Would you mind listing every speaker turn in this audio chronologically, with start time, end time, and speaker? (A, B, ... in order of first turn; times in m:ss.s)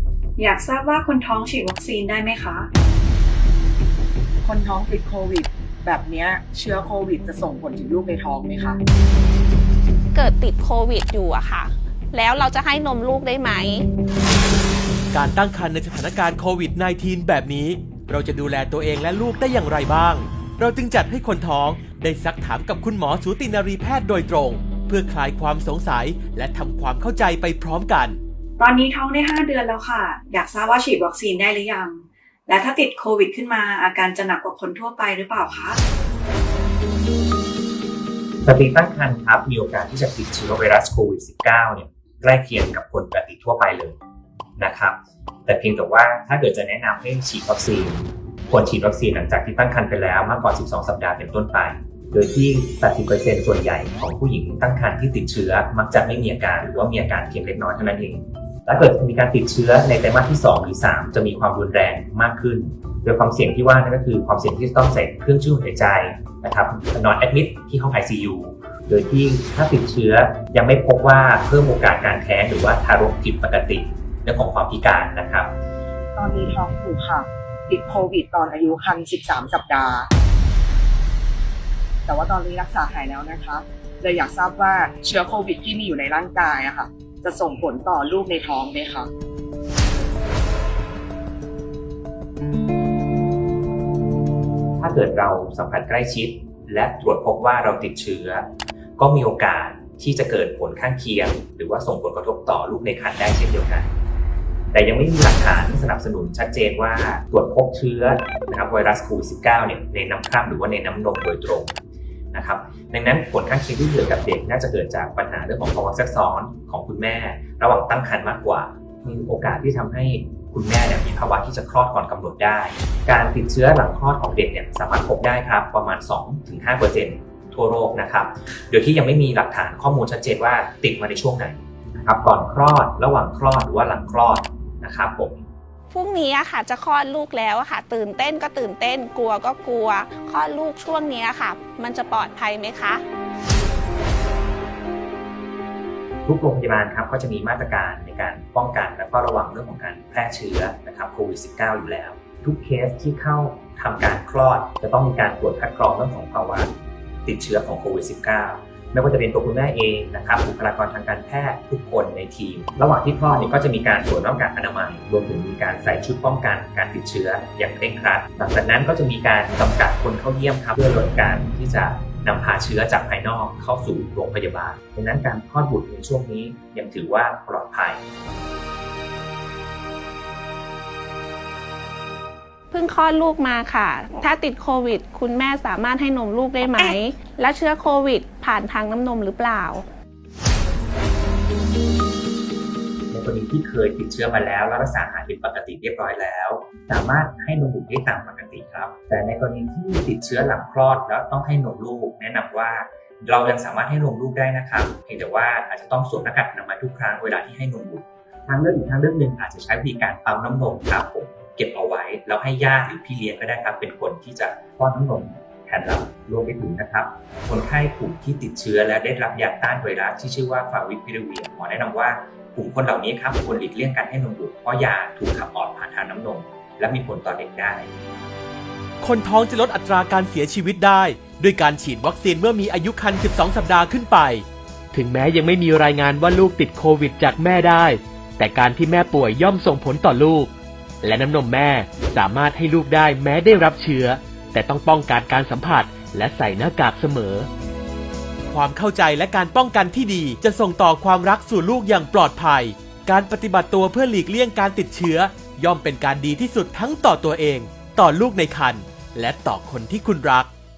0:00.4-0:02.7 A
0:04.4-0:08.8 B
0:10.1-0:13.8 C
0:15.1-0:28.2 D
0:28.6-0:35.8 A
0:38.4-0:44.0 E
0:44.6-1:15.5 E
1:16.1-1:20.1 B
1:22.1-1:29.1 B
1:34.8-1:38.4 E
1:39.0-1:43.9 E
1:44.7-1:51.7 E
1:52.3-2:15.4 E
2:15.9-2:23.0 C
2:26.2-2:36.7 E
2:37.2-2:58.0 E
3:02.7-3:09.8 C
3:13.1-3:47.9 E
3:49.0-4:07.5 D
4:08.5-4:20.5 D